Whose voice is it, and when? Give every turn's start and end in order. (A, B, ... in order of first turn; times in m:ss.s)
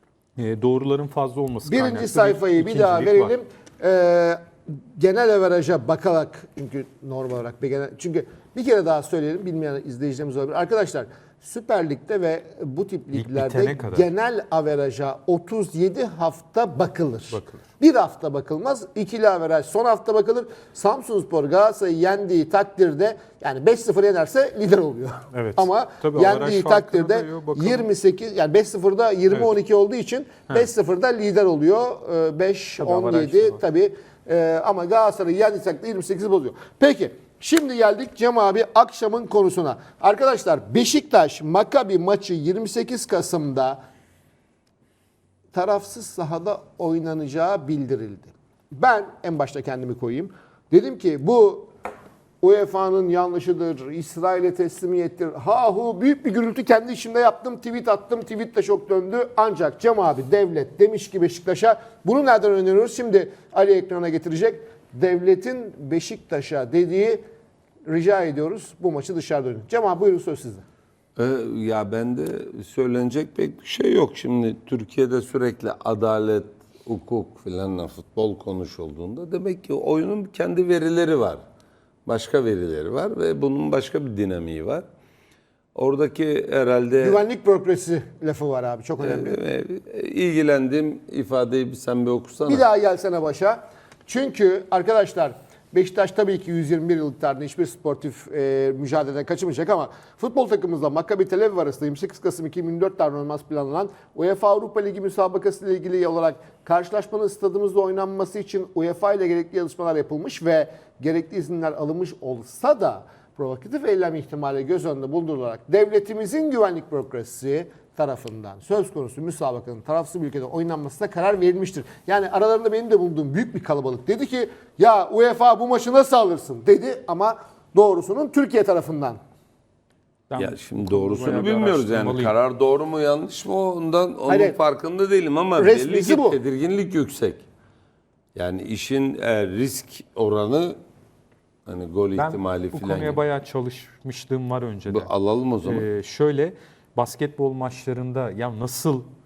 0:00.4-0:03.3 A
0:01.6-0:43.8 B
0:13.1-0:14.0 A
0:17.3-0:17.6 A
0:25.3-0:27.8 A
0:32.8-0:33.6 A
0:45.5-0:51.7 B
0:52.4-1:07.2 B
1:07.8-1:10.6 B
1:11.2-1:21.4 C
1:22.0-1:24.8 C
1:25.7-1:27.2 C
1:27.0-1:29.4 B
1:29.0-1:32.6 C
1:32.4-2:09.2 B
2:10.3-2:12.3 A
2:10.4-2:17.4 C
2:14.3-2:14.6 B
2:15.6-2:16.4 B
2:18.3-2:20.8 C
2:21.6-2:23.2 C
2:22.2-2:25.1 A
2:24.9-2:25.9 C
2:25.6-2:29.0 A